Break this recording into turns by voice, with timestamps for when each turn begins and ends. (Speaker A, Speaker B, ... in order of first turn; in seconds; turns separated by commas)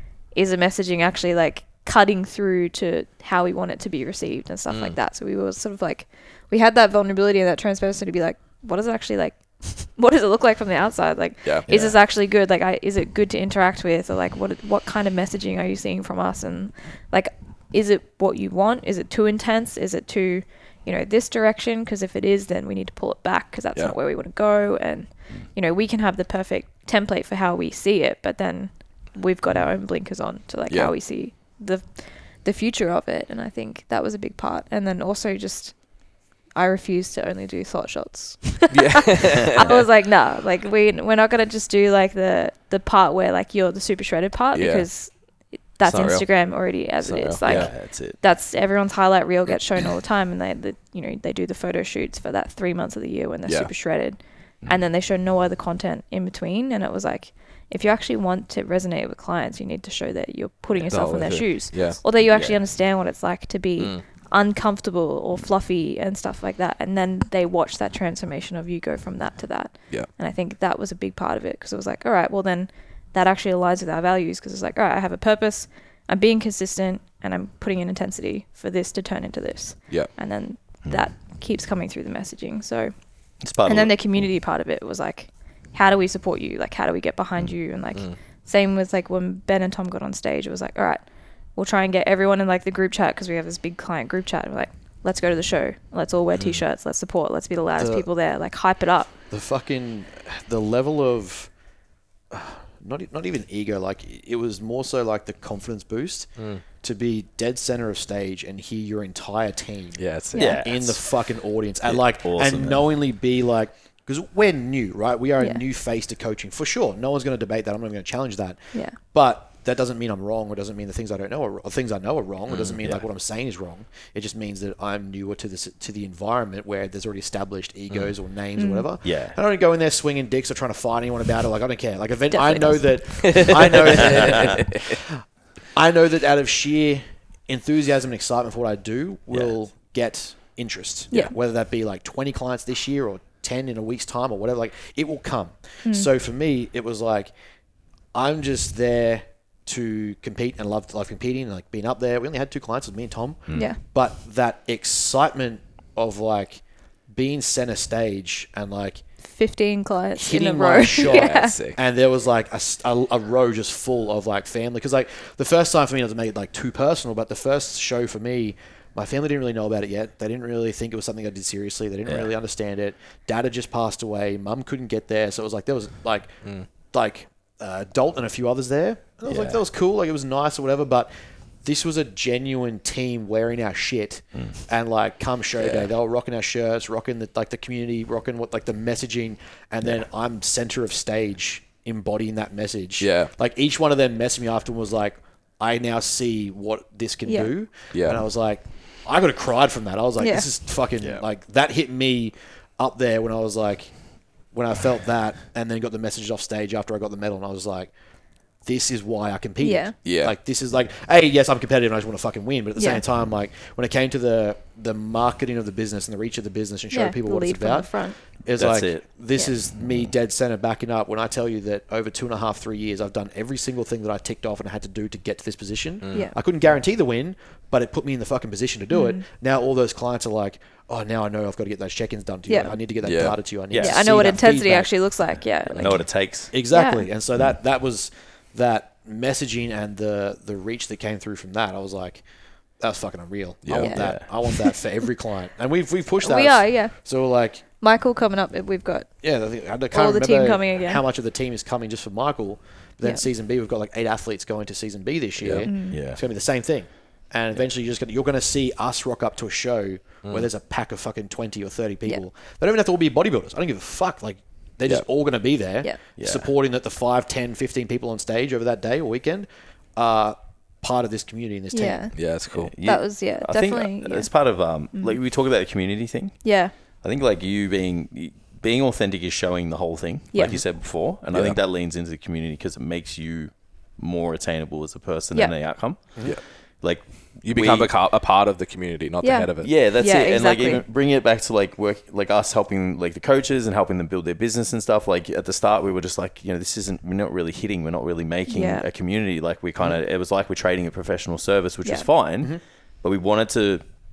Speaker A: 0.3-35.8, Speaker B: 4.7-5.0, Speaker A: 36.5-45.1, Speaker B: 38.7-39.9, Speaker B: 44.5-44.9, Speaker A: 45.7-82.9, Speaker B: 45.8-46.3, Speaker B: 47.0-47.7, Speaker C: 47.4-48.2, Speaker B: 53.5-53.7, Speaker B: 60.8-62.0, Speaker C: 62.3-62.6, Speaker C: 83.4-84.0, Speaker A: 83.7-91.0, Speaker A: 91.6-99.1, Speaker B: 96.4-96.6, Speaker D: 97.8-98.1, Speaker D: 99.3-101.5, Speaker D: 102.3-106.3, Speaker B: 106.4-106.6, Speaker D: 106.8-110.0, Speaker B: 110.0-110.5, Speaker A: 110.3-110.6, Speaker C: 110.3-111.0, Speaker D: 110.6-135.2, Speaker C: 111.8-112.9, Speaker C: 122.5-123.0, Speaker A: 128.6-128.9, Speaker C: 129.0-129.4, Speaker A: 132.3-133.6, Speaker B: 133.2-134.9, Speaker D: 135.8-147.3, Speaker D: 148.1-159.0, Speaker C: 153.5-153.7, Speaker A: 153.6-153.8, Speaker A: 159.3-161.6, Speaker D: 160.2-176.4, Speaker B: 161.0-161.8, Speaker C: 172.1-172.3, Speaker D: 176.9-181.1, Speaker C: 179.3-179.6, Speaker D: 181.6-203.9, Speaker B: 185.6-185.9, Speaker B: 193.0-193.3, Speaker B: 197.9-198.2, Speaker A: 200.2-200.5, Speaker D: 204.5-207.9, Speaker D: 208.7-234.9, Speaker A: 209.6-210.0, Speaker B: 210.0-210.3, Speaker A: 212.8-213.0, Speaker A: 216.9-218.2, Speaker C: 218.6-219.0, Speaker B: 226.0-226.3, Speaker A: 228.9-229.2, Speaker A: 232.5-232.8, Speaker B: 233.0-233.4, Speaker C: 233.7-234.1, Speaker A: 233.8-236.0, Speaker C: 235.7-236.5, Speaker D: 236.5-242.2, Speaker A: 236.7-237.1, Speaker D: 242.8-247.6, Speaker B: 243.7-243.9, Speaker A: 243.8-244.8, Speaker C: 243.9-244.3, Speaker A: 246.2-246.9, Speaker A: 247.8-249.1, Speaker D: 249.2-272.1, Speaker A: 249.9-251.0, Speaker B: 255.4-255.7, Speaker A: 255.6-256.0, Speaker C: 255.9-256.2, Speaker C: 266.2-266.5, Speaker A: 271.7-272.1, Speaker B: 272.1-272.7, Speaker C: 272.5-287.9, Speaker A: 272.8-274.3, Speaker A: 276.4-276.7, Speaker A: 280.3-280.6, Speaker B: 281.3-281.6, Speaker B: 287.4-289.7, Speaker A: 289.2-290.8, Speaker C: 289.6-303.8, Speaker A: 298.5-298.9